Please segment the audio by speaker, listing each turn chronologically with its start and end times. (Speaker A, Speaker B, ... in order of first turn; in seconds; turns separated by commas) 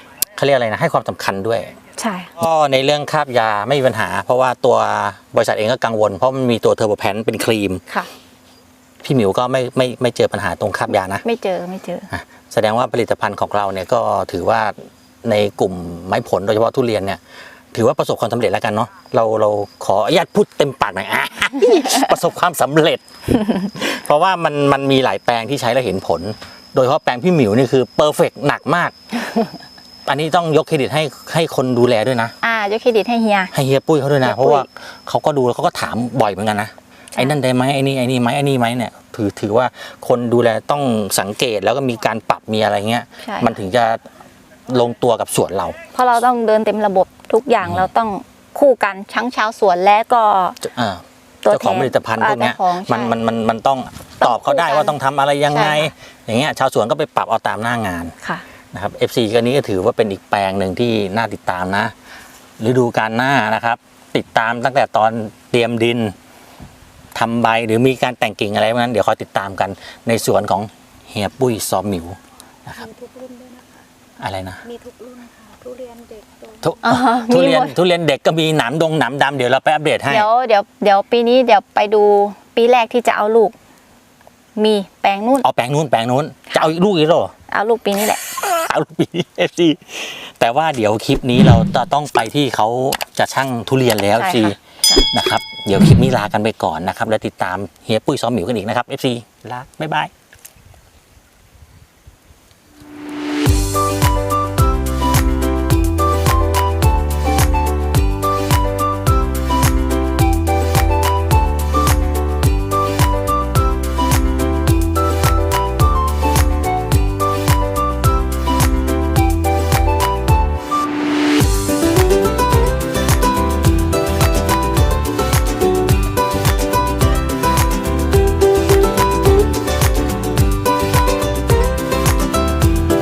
Speaker A: 0.4-1.7, Speaker B: 2.0-2.3, Speaker A: 2.4-7.8, Speaker A: 9.0-11.2, Speaker B: 11.2-12.1, Speaker A: 12.1-17.2, Speaker A: 17.7-28.9, Speaker A: 30.1-32.3, Speaker B: 32.4-33.5, Speaker A: 33.5-44.0, Speaker B: 34.2-34.7, Speaker B: 43.2-43.6, Speaker A: 44.7-45.8, Speaker B: 45.9-50.6, Speaker A: 50.6-58.1, Speaker B: 51.4-53.2, Speaker B: 54.2-55.0, Speaker B: 55.5-55.9, Speaker A: 58.7-61.9, Speaker A: 62.6-66.2, Speaker A: 67.1-72.8, Speaker C: 73.0-73.6, Speaker A: 74.2-74.6, Speaker C: 74.7-76.6, Speaker A: 76.6-80.3, Speaker B: 76.8-77.8, Speaker B: 80.1-83.5, Speaker B: 84.6-85.5, Speaker A: 85.4-87.3, Speaker B: 87.5-88.2, Speaker A: 88.2-94.6, Speaker B: 94.2-95.0, Speaker A: 95.1-100.1